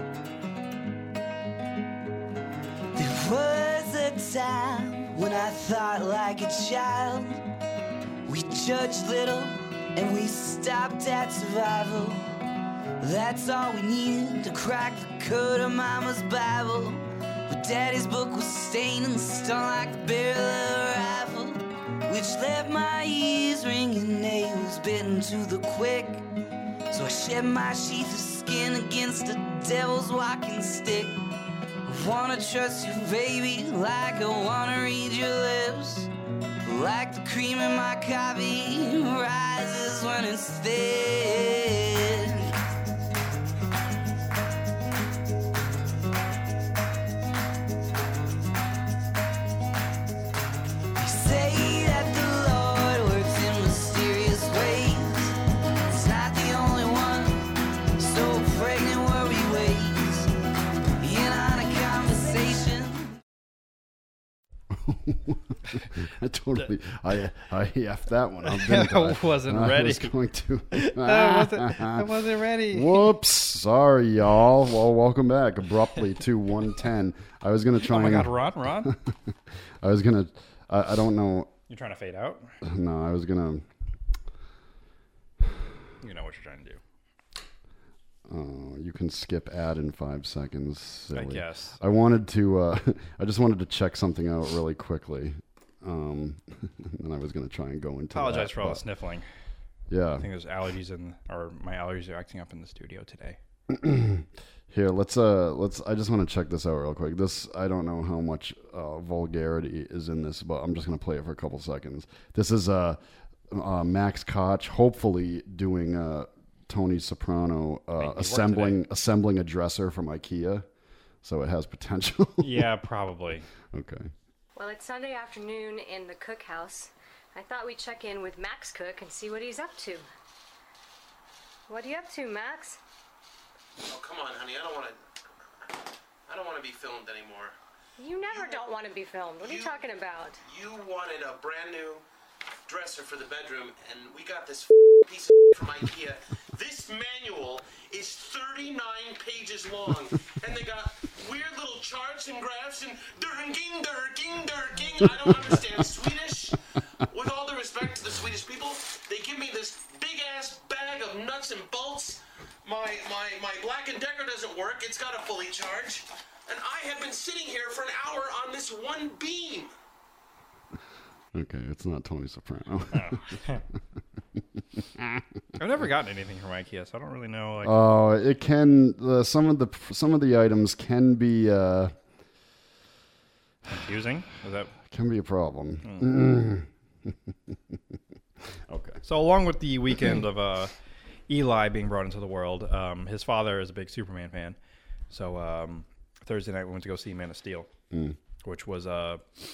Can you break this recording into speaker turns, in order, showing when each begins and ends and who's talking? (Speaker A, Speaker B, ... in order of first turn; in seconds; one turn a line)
Speaker A: 3.0-7.4
Speaker A: 8.3-12.4
Speaker A: 13.0-26.2
Speaker A: 26.9-31.2
Speaker A: 31.9-36.1
Speaker A: 36.7-42.5
Speaker A: 51.0-55.4
Speaker A: 55.9-60.3
Speaker A: 61.0-63.1
Speaker B: 64.7-81.5
Speaker C: 68.5-70.1
Speaker C: 70.7-73.2
Speaker C: 77.8-78.9
Speaker C: 81.7-82.5
Speaker B: 82.6-83.7
Speaker C: 86.0-86.8
Speaker B: 88.3-98.8
Speaker C: 91.1-91.8
Speaker C: 98.1-99.3
Speaker B: 99.9-100.3
Speaker C: 100.2-103.4
Speaker B: 103.7-113.0
Speaker B: 113.5-120.7
Speaker C: 118.0-118.8
Speaker B: 121.2-122.7
Speaker C: 122.4-123.5
Speaker B: 123.7-124.1
Speaker D: 124.6-130.1
Speaker D: 131.7-132.8
Speaker E: 133.8-135.0
Speaker E: 136.3-137.6
Speaker D: 138.0-140.4
Speaker E: 138.3-138.7
Speaker E: 139.4-139.8
Speaker E: 140.4-142.1
Speaker E: 142.7-169.7
Speaker B: 171.3-173.4
Speaker C: 172.9-173.6
Speaker B: 174.8-175.2
Speaker C: 175.6-177.8
Speaker B: 177.6-181.9
Speaker C: 183.7-184.8
Speaker B: 184.8-187.8
Speaker C: 185.8-186.1
Speaker B: 188.7-189.0
Speaker C: 189.0-190.7
Speaker C: 191.3-194.6
Speaker C: 195.1-197.7
Speaker B: 197.9-198.2
Speaker C: 198.4-199.2